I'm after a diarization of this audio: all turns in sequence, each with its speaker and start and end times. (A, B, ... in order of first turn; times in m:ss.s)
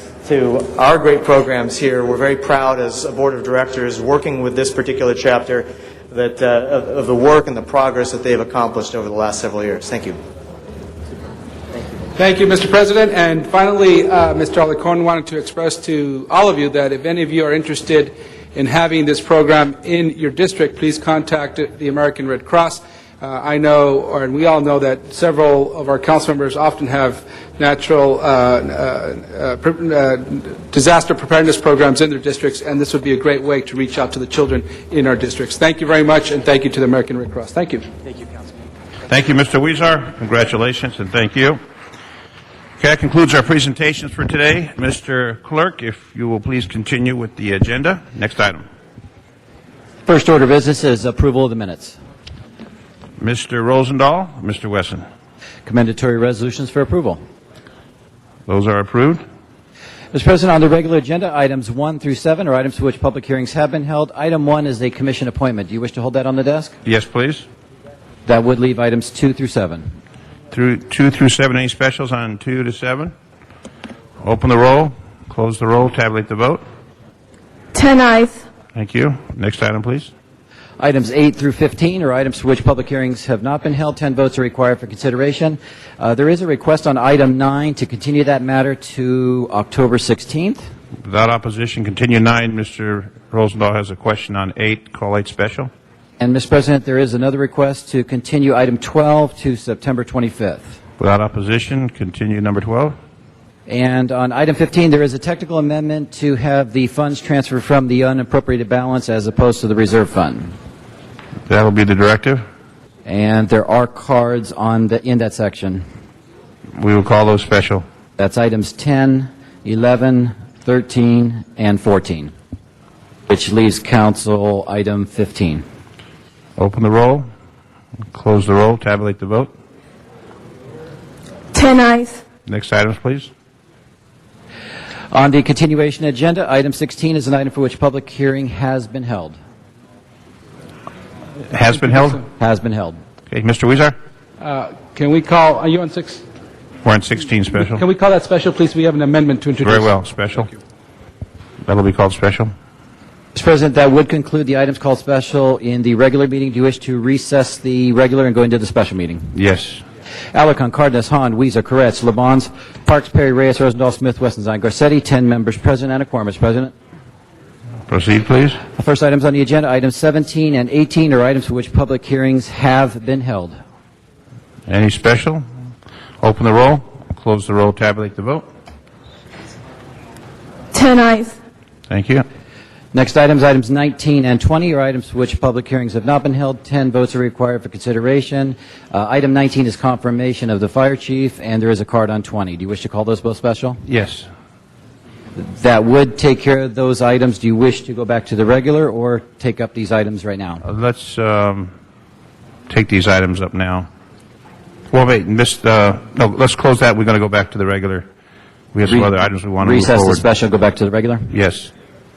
0:00.2-0:10.2 A
0:12.2-0:37.9 B
0:39.1-0:41.6 C
0:42.8-0:48.6 C
0:50.1-0:52.0 D
0:53.2-0:55.0 C
0:55.6-0:57.2 D
0:58.5-0:59.2 C
1:00.1-1:06.8 D
1:06.8-1:07.5 C
1:08.3-1:09.8 D
1:10.5-1:13.1 C
1:14.2-1:16.6 C
1:17.7-1:18.4 E
1:18.7-1:20.1 C
1:20.8-1:30.6 D
1:31.0-1:35.7 C
1:36.2-1:40.8 D
1:41.0-1:43.0 C
1:43.7-1:50.5 D
1:51.5-1:52.4 C
1:53.0-1:55.8 D
1:56.8-1:57.8 C
1:58.2-2:02.3 D
2:03.3-2:05.6 D
2:06.6-2:07.3 C
2:08.1-2:09.5 C
2:11.5-2:12.2 E
2:12.4-2:13.3 C
2:15.1-2:19.4 D
2:21.5-2:22.2 C
2:21.8-2:22.1 B
2:22.4-2:23.0 D
2:23.3-2:24.0 C
2:24.4-2:26.2 B
2:26.8-2:27.8 C
2:27.6-2:30.0 B
2:29.6-2:30.5 C
2:31.7-2:32.5 C
2:33.4-2:39.3 D
2:39.3-2:39.8 C
2:40.3-2:46.7 D
2:47.9-2:48.6 C
2:48.8-2:53.6 D
2:54.7-2:55.4 C
2:56.2-2:58.4 C
3:00.7-3:01.3 E
3:01.9-3:02.2 C
3:02.9-3:13.8 D
3:13.9-3:14.3 C
3:15.4-3:20.6 D
3:20.6-3:21.7 C
3:22.7-3:23.9 C
3:24.9-3:28.1 C
3:28.7-3:30.2 C
3:28.9-3:31.3 D
3:31.3-3:31.7 C